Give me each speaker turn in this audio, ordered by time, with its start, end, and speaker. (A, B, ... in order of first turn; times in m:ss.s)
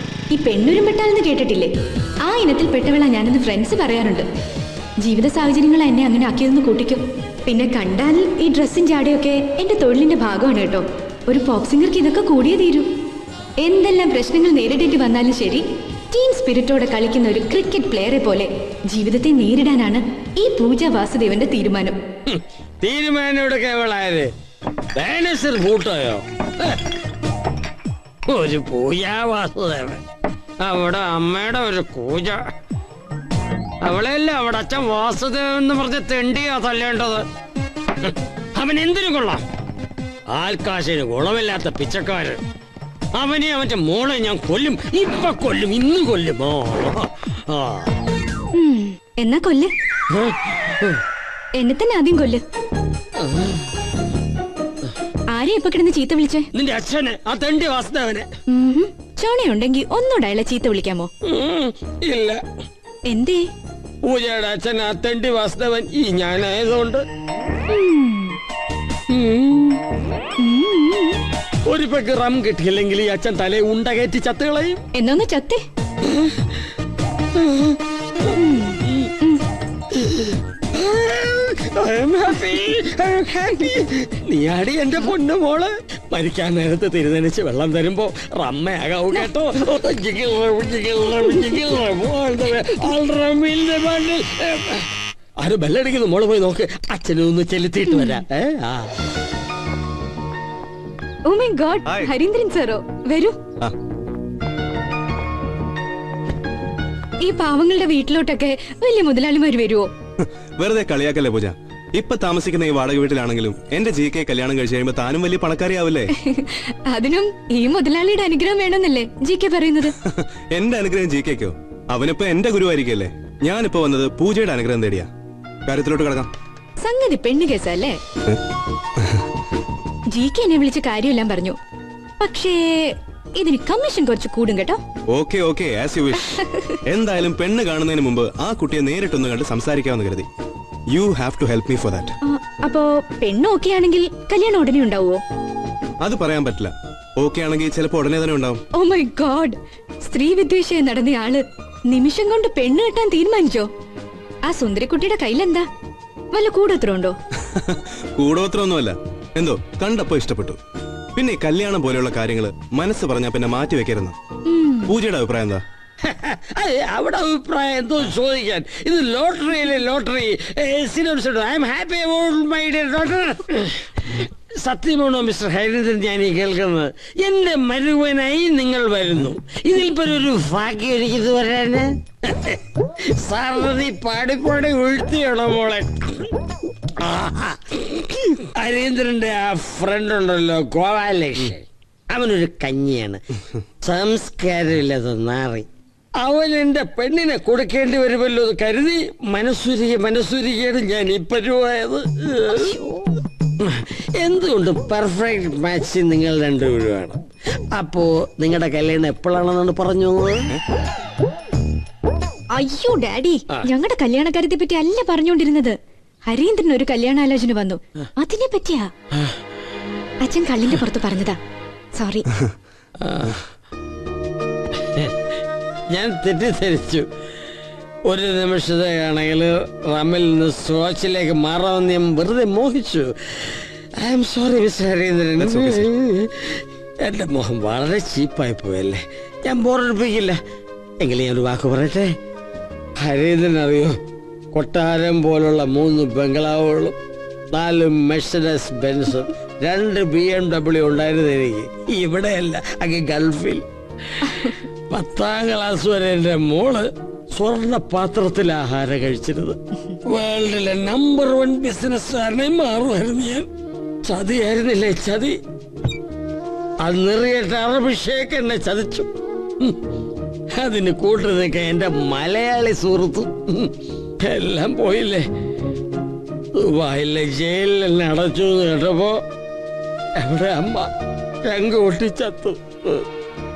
0:00.3-0:01.7 A
0:02.2-0:04.3 A
0:05.0-0:12.9 A
0:13.6-0:22.0 A
0:22.3-0:24.3 B
0:25.0-0:26.8 B
0:28.3-0:30.0 B
0:30.6-0:32.4 B
0:33.8-0:37.3 B
0:38.0-0:39.4 B
0:40.3-0:42.4 B
0:43.2-0:47.9 B
0:48.5-0:49.7 A
0:50.1-0:51.0 B
0:51.6-0:52.4 A
0:53.2-0:53.6 B
0:55.3-0:56.5 A
0:56.6-0:58.3 B
0:58.5-1:01.1 A
1:01.2-1:02.4 B
1:03.1-1:03.4 A
1:04.0-1:07.0 B
1:07.7-1:08.4 A
1:09.1-1:09.8 B
1:10.4-1:11.2 A
1:11.7-1:14.8 B
1:14.9-1:15.6 A
1:17.4-1:17.8 B
1:18.3-1:19.4 A
1:20.0-1:34.9 B
1:35.4-1:38.9 B
1:37.9-1:38.2 A
1:41.3-1:43.4 A
1:41.9-1:42.1 C
1:47.2-1:49.9 A
1:50.2-1:56.1 C
1:56.2-2:00.0 A
2:00.0-2:05.1 C
2:05.7-2:06.3 C
2:06.8-2:08.0 A
2:10.1-2:11.6 A
2:12.2-2:14.8 A
2:15.1-2:20.3 C
2:16.3-2:16.8 A
2:20.9-2:22.2 C
2:22.2-2:25.2 A
2:26.0-2:28.6 C
2:28.7-2:33.7 A
2:34.4-2:35.7 A
2:36.3-2:37.2 A
2:37.6-2:40.6 C
2:41.2-2:44.1 C
2:44.5-2:44.9 A
2:44.9-2:45.6 C
2:46.0-3:06.3 B
3:07.0-3:13.2 B
3:13.8-3:22.7 B
3:23.6-3:27.2 B
3:27.7-3:30.5 B
3:32.5-3:38.9 A
3:40.2-3:41.4 A
3:41.9-3:42.3 A
3:43.0-3:43.4 B
3:45.9-3:47.1 B
3:48.1-4:00.4 B
3:55.4-3:55.9 C
4:01.0-4:02.1 B
4:03.0-4:04.0 B
4:04.5-4:07.0 B
4:07.5-4:13.6 B
4:14.9-4:23.5 B
4:24.0-4:25.4 B
4:26.8-4:29.1 B
4:30.5-4:35.2 B
4:36.6-4:39.2 B
4:40.2-4:40.9 B
4:41.4-4:43.0 B